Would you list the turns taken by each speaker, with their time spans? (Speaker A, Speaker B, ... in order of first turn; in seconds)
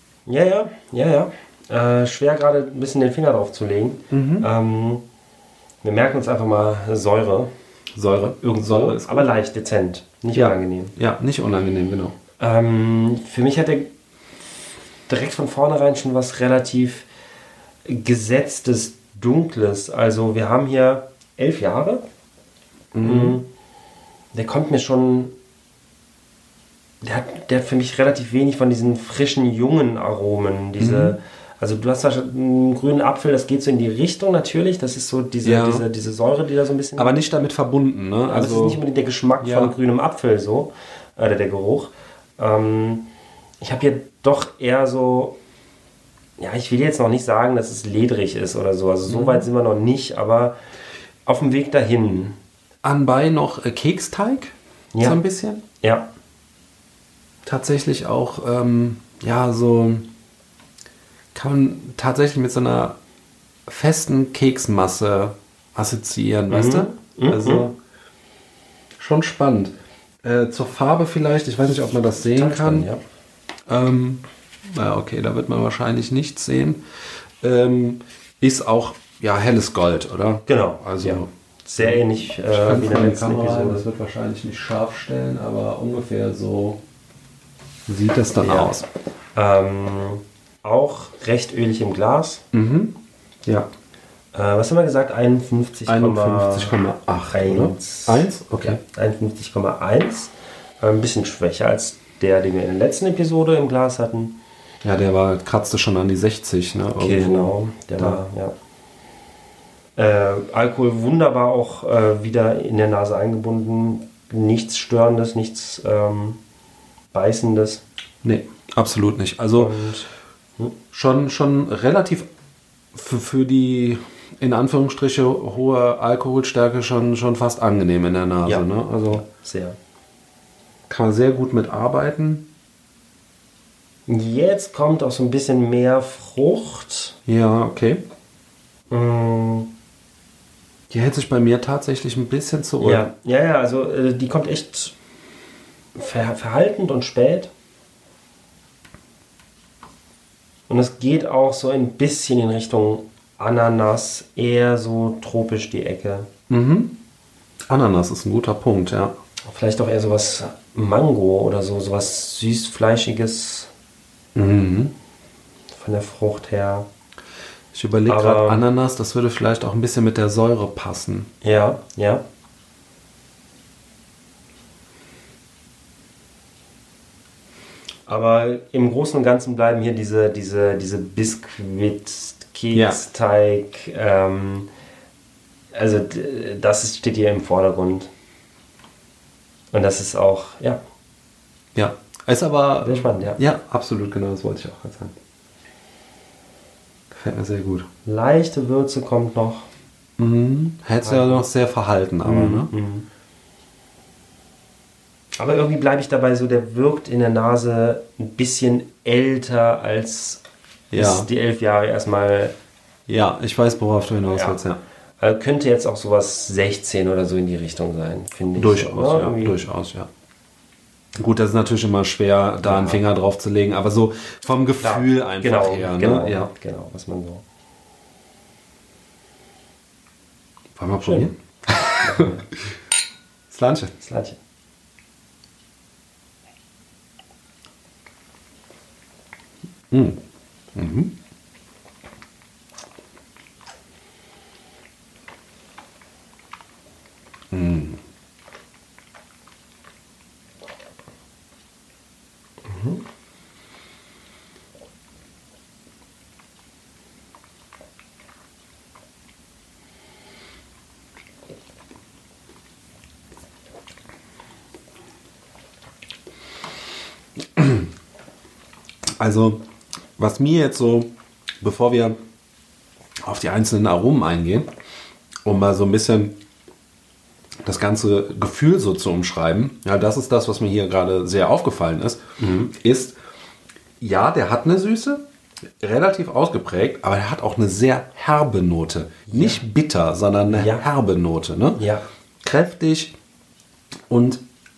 Speaker A: 0.3-5.0, 5.8-7.5, 8.4-10.9, 12.4-13.9, 15.1-17.1, 17.9-22.0, 23.0-23.5, 24.3-25.3, 27.0-37.1, 38.2-43.1, 43.6-45.4, 46.4-50.6, 51.2-52.4, 54.9-55.2, 55.8-56.1, 66.5-67.7, 72.3-73.0, 80.5-83.8, 88.4-88.7, 89.3-92.4, 94.3-104.4, 107.0-108.5, 110.0-116.4, 117.1-117.8, 119.5-120.1, 128.4-129.8, 134.1-137.2, 138.9-139.7, 142.8-144.9, 145.9-147.5, 150.7-156.3, 159.4-163.7, 165.7-166.9, 168.1-168.6, 171.4-172.2, 178.1-184.7, 185.7-188.1, 189.7-190.8, 192.8-193.4, 198.1-199.7, 201.0-201.4, 202.2-203.1, 205.4-210.4, 210.9-212.5, 214.3-214.6, 215.2-219.6, 222.6-223.0, 224.8-227.4, 231.1-231.3, 231.9-232.5, 234.0-234.4, 252.6-253.0, 282.4-282.7, 289.3-289.6, 290.5-290.8, 291.8-292.0
Speaker B: 4.1-4.5, 8.0-9.3, 10.3-12.2, 22.9-23.4, 30.8-31.1, 35.4-35.9, 37.0-38.8, 39.4-39.7, 49.1-49.5, 52.8-55.6, 57.5-60.1, 61.3-63.0, 63.7-67.8, 69.0-72.9, 73.7-76.8, 77.4-81.3, 81.8-86.8, 87.9-88.9, 92.5-93.7, 95.9-98.8, 104.8-108.2, 118.2-119.7, 120.9-122.3, 122.9-129.2, 130.9-132.5, 137.3-138.0, 140.9-143.0, 156.5-157.0, 157.7-159.2, 164.3-164.9, 167.7-171.3, 182.7-183.0, 191.7-195.1, 197.1-197.9, 200.2-202.7, 210.9-211.3, 213.1-214.8, 218.6-220.1, 221.2-226.5, 230.8-232.3, 233.5-233.9, 239.9-240.2, 240.7-241.1, 247.5-248.0, 267.4-267.9, 269.2-269.6, 270.2-271.1, 271.6-272.2, 273.2-274.7, 275.4-276.4, 277.6-283.1, 284.0-285.2, 285.8-291.8, 292.4-293.1, 294.1-294.4